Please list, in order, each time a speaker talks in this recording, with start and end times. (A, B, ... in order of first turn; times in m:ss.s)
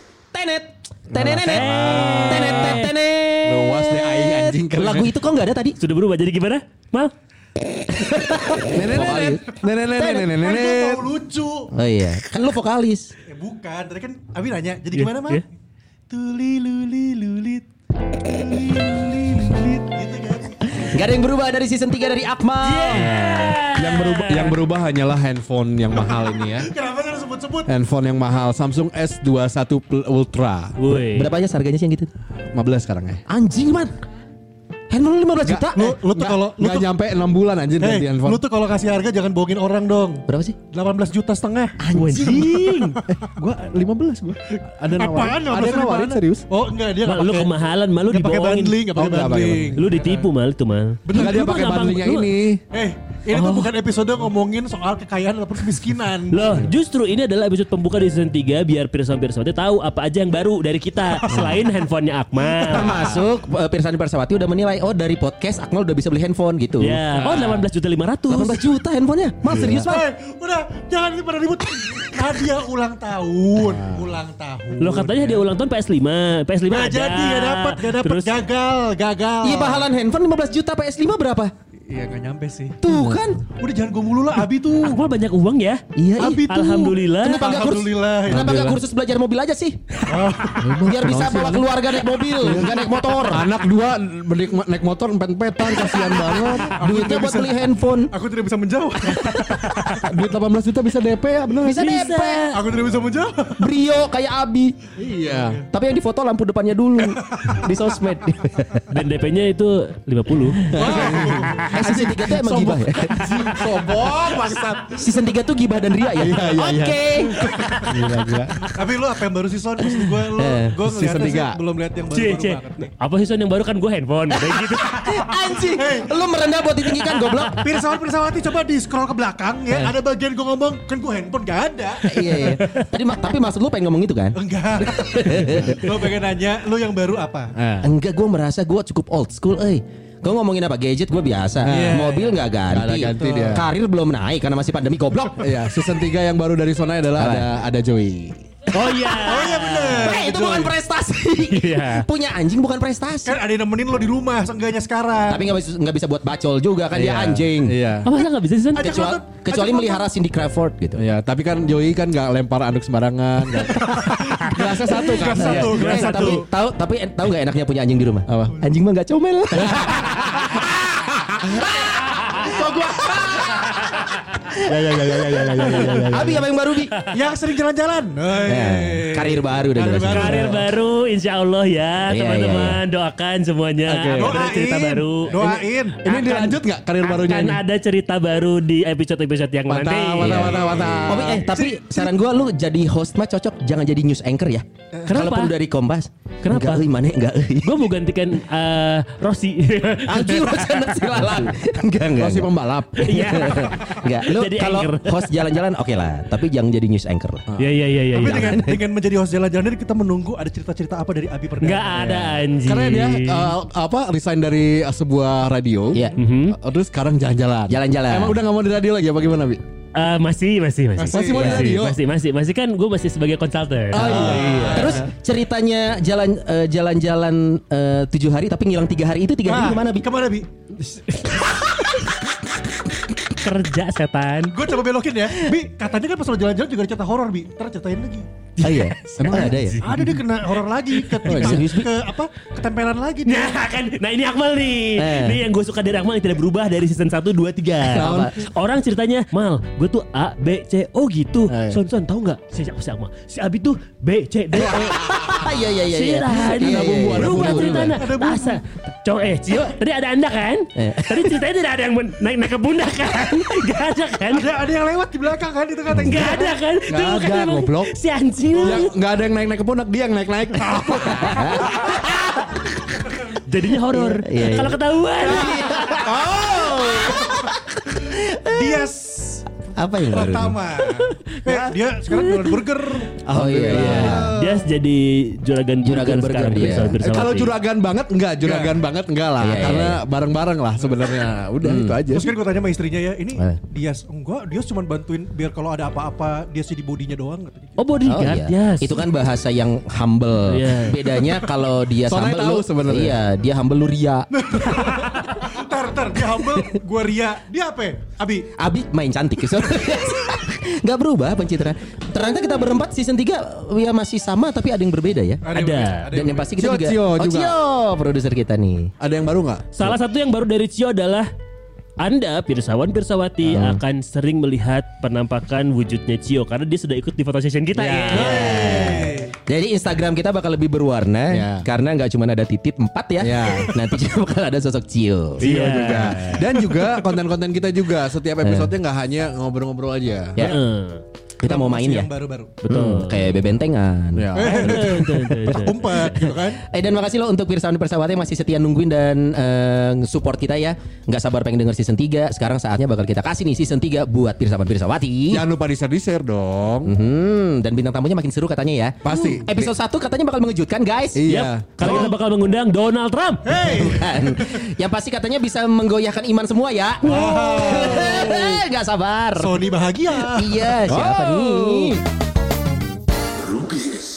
0:00.3-0:05.8 A
0:01.1-0:02.9 B
0:01.4-0:02.9 C
0:03.4-0:05.1 B
0:05.8-0:07.1 C
0:07.9-0:10.3 A
0:08.7-0:11.1 B
0:10.2-0:11.7 D
0:11.7-0:13.1 A
0:13.2-0:15.4 D
0:14.9-0:15.4 C
0:16.1-0:17.6 D
0:18.2-0:20.8 D
0:20.7-0:23.1 A
0:22.6-0:24.6 C
0:22.9-0:26.7 B
0:26.1-0:27.7 D
0:27.6-0:30.8 B
0:30.8-0:31.3 C
0:31.1-0:32.1 A
0:32.5-0:33.2 B
0:33.3-0:33.9 A
0:34.9-0:36.3 A
0:35.4-0:38.4 B
0:35.8-0:36.9 D
0:37.8-0:43.2 D
0:40.3-0:40.6 A
0:41.8-0:42.4 A
0:41.9-0:43.0 C
0:43.1-0:46.4 B
0:44.9-0:47.5 D
0:47.0-0:48.8 C
0:48.0-0:50.3 D
0:48.9-0:49.8 B
0:49.8-0:52.3 C
0:51.0-0:51.6 D
0:51.1-0:52.6 B
0:52.7-0:56.6 D
0:56.3-1:03.0 C
1:01.1-1:01.5 D
1:02.6-1:03.1 D
1:02.6-1:07.5 A
1:06.8-1:08.6 C
1:08.3-1:10.0 A
1:09.5-1:09.8 B
1:09.8-1:15.4 D
1:14.8-1:18.3 C
1:16.7-1:19.9 D
1:19.4-1:21.5 A
1:21.9-1:22.8 D
1:22.8-1:23.4 A
1:22.9-1:23.2 B
1:23.6-1:25.0 D
1:24.8-1:25.8 C
1:26.0-1:29.8 A
1:26.2-1:28.6 D
1:26.5-1:27.5 C
1:28.2-1:28.8 B
1:30.1-1:30.9 D
1:30.6-1:36.9 B
1:30.8-1:33.5 A
1:35.8-1:38.1 A
1:36.1-1:40.0 D
1:39.0-1:39.7 A
1:39.9-1:42.0 B
1:41.6-1:42.4 A
1:41.7-1:42.6 C
1:42.5-1:43.7 D
1:43.6-1:44.8 A
1:45.0-1:45.6 B
1:45.3-1:45.6 D
1:45.7-1:48.9 A
1:48.9-1:50.7 C
1:50.7-1:51.7 D
1:50.7-1:55.0 B
1:50.7-1:54.0 A
1:54.9-1:58.2 A
1:56.2-1:58.7 B
1:58.7-2:02.9 D
2:00.2-2:01.6 A
2:01.0-2:01.3 B
2:02.1-2:05.1 C
2:04.4-2:07.6 A
2:05.7-2:06.2 D
2:07.4-2:12.6 D
2:12.0-2:14.4 A
2:14.3-2:17.5 D
2:15.0-2:15.8 A
2:17.6-2:17.9 B
2:17.8-2:25.5 A
2:21.6-2:23.7 B
2:21.7-2:22.3 D
2:23.2-2:23.5 D
2:25.4-2:29.1 B
2:27.2-2:27.5 A
2:28.7-2:30.2 C
2:28.9-2:29.3 A
2:29.1-2:30.7 D
2:30.0-2:33.4 A
2:31.5-2:32.1 C
2:33.2-2:35.5 D
2:35.3-2:37.8 A
2:36.9-2:38.1 B
2:38.0-2:39.0 C
2:38.7-2:40.0 D
2:38.8-2:41.0 A
2:41.0-2:46.2 B
2:43.8-2:46.5 D
2:45.3-2:50.6 A
2:48.3-2:48.6 B
2:49.6-2:50.6 B
2:51.7-2:53.7 A
2:52.7-2:53.1 D
2:53.6-2:56.5 C
2:54.9-2:57.0 A
2:57.0-3:00.6 D
2:58.4-3:00.5 A
3:00.1-3:05.4 C
3:02.1-3:02.8 A
3:03.8-3:04.5 B
3:04.1-3:06.0 D
3:05.3-3:07.6 B
3:06.0-3:10.6 C
3:09.7-3:11.4 B
3:10.2-3:17.9 A
3:10.4-3:12.2 D
3:15.1-3:15.5 C
3:16.4-3:16.9 C
3:17.6-3:20.9 C
3:20.0-3:22.5 A
3:22.2-3:23.4 B
3:23.0-3:25.3 C
3:23.1-3:27.5 A
3:27.6-3:28.6 C
3:28.1-3:32.2 D
3:28.3-3:28.7 A
3:31.6-3:33.5 C
3:32.6-3:39.6 B
3:35.9-3:36.2 A
3:36.2-3:36.6 C
3:37.7-3:38.4 A
3:39.9-3:45.0 C
3:41.0-3:41.6 D
3:41.1-3:42.0 B
3:41.3-3:41.7 A
3:43.9-3:45.0 B
3:44.0-3:50.1 A
3:44.0-3:45.0 D
3:49.4-3:50.5 D
3:53.3-3:54.6 C
3:54.5-3:58.3 D
3:58.6-3:59.8 A
3:58.6-4:00.1 C
3:59.2-3:59.6 B
3:59.8-4:03.6 D
4:01.2-4:01.7 B
4:01.3-4:01.9 A
4:03.2-4:15.0 C
4:05.0-4:05.4 A
4:07.8-4:08.4 A
4:07.9-4:08.4 B
4:11.5-4:11.8 B
4:14.5-4:17.8 A
4:14.6-4:15.5 B
4:15.8-4:24.5 C
4:16.2-4:18.0 B
4:17.8-4:18.6 D
4:20.8-4:21.4 A
4:24.3-4:26.6 D
4:26.0-4:28.9 C
4:26.9-4:27.9 B
4:28.6-4:31.4 B
4:28.6-4:28.9 D
4:30.6-4:32.0 D
4:31.2-4:32.6 A
4:33.3-4:36.0 C
4:33.9-4:38.8 A
4:35.3-4:37.6 D
4:38.1-4:43.2 D
4:39.7-4:41.6 A
4:43.2-4:44.3 B
4:43.3-4:44.3 A
4:43.7-4:47.6 C
4:43.9-4:44.6 D
4:45.8-4:47.2 A
4:47.0-4:52.3 B
4:48.4-4:48.8 D
4:49.4-4:50.0 A
4:51.6-4:52.0 A
4:52.1-4:57.8 D
4:57.8-4:59.1 C
4:58.0-5:04.8 A
5:00.5-5:01.1 C
5:02.0-5:03.2 B
5:04.3-5:08.5 D
5:08.6-5:15.4 A
5:15.4-5:16.4 D
5:15.5-5:16.2 C
5:16.1-5:18.9 A
5:16.2-5:17.6 B
5:19.0-5:20.0 B
5:19.7-5:21.3 C
5:22.0-5:28.7 C
5:23.5-5:23.8 A
5:27.8-5:28.6 B
5:28.1-5:29.3 D
5:28.1-5:35.5 A
5:31.3-5:31.7 B
5:33.2-5:33.8 B
5:35.4-5:36.4 C
5:35.4-5:40.6 B
5:36.4-5:37.2 D
5:38.4-5:38.7 A
5:40.4-5:41.0 C
5:41.4-5:42.1 A
5:41.4-5:42.6 D
5:42.6-5:43.4 C
5:42.7-5:45.1 A
5:42.7-5:43.0 B
5:44.1-5:44.6 B
5:44.3-5:46.6 D
5:44.5-5:46.3 C
5:46.6-5:55.4 A
5:55.3-5:56.9 B
5:56.8-6:01.2 A
5:59.0-5:59.7 B
6:01.1-6:02.0 B
6:01.3-6:03.7 C
6:01.8-6:02.1 D
6:03.4-6:04.6 D
6:03.7-6:09.5 A
6:07.0-6:08.6 D
6:09.4-6:10.7 D
6:10.2-6:12.0 A
6:10.8-6:12.0 B